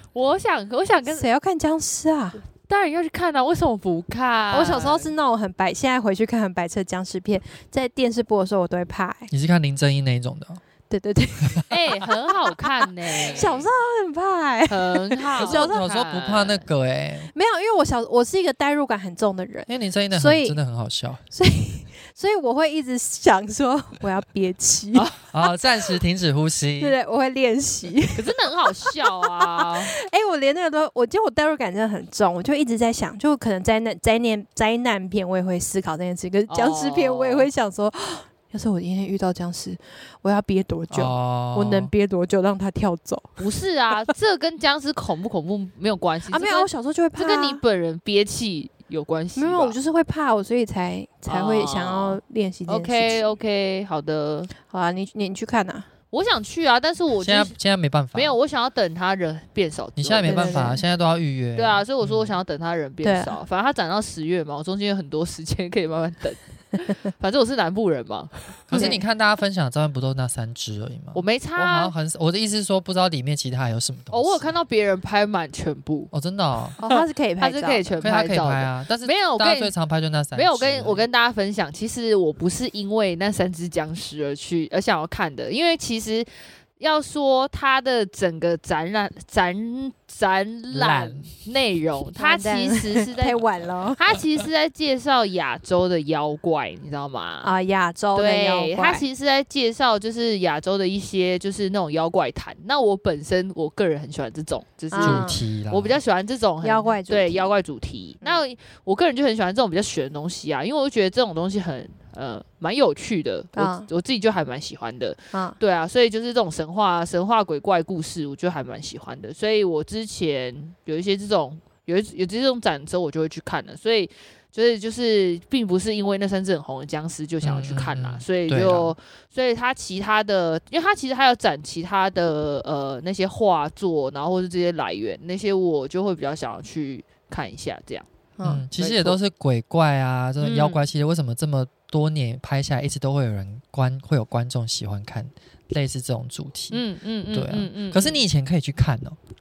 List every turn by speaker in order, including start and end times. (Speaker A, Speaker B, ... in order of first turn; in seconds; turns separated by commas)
Speaker A: 0.1-1.3, Speaker B: 1.1-2.4, Speaker A: 2.7-5.1, Speaker B: 4.5-9.3, Speaker C: 9.3-10.6, Speaker B: 10.9-11.7, Speaker A: 11.7-13.7, Speaker B: 13.2-15.8, Speaker A: 14.7-16.7, Speaker C: 15.4-17.3, Speaker B: 17.3-20.6, Speaker C: 19.7-21.2, Speaker B: 21.3-25.1, Speaker C: 25.3-27.0, Speaker B: 26.8-28.3, Speaker A: 28.1-29.9, Speaker B: 28.9-43.4, Speaker A: 36.5-37.5, Speaker C: 40.9-41.9, Speaker A: 43.4-49.8, Speaker B: 46.3-47.6, Speaker B: 49.4-53.2, Speaker A: 51.3-54.5, Speaker B: 54.6-55.9, Speaker A: 56.1-57.5, Speaker C: 57.2-58.4, Speaker A: 58.1-60.7, Speaker C: 60.0-62.4, Speaker B: 60.3-60.8, Speaker A: 61.6-68.9, Speaker B: 63.0-63.4, Speaker C: 68.7-74.5, Speaker B: 68.7-69.0, Speaker A: 71.2-71.9, Speaker A: 74.1-76.1, Speaker C: 76.1-76.8, Speaker B: 76.8-77.8, Speaker A: 76.8-79.7, Speaker C: 78.0-81.1, Speaker A: 80.3-97.5, Speaker C: 90.7-91.3, Speaker B: 92.2-94.0, Speaker B: 97.4-99.0, Speaker A: 98.2-138.1, Speaker B: 104.9-105.4, Speaker C: 105.0-106.0, Speaker B: 106.6-107.5, Speaker B: 113.5-113.9, Speaker C: 127.4-128.9, Speaker B: 138.4-138.7, Speaker C: 138.4-149.2, Speaker A: 138.8-139.2, Speaker A: 140.4-140.8, Speaker A: 146.7-148.2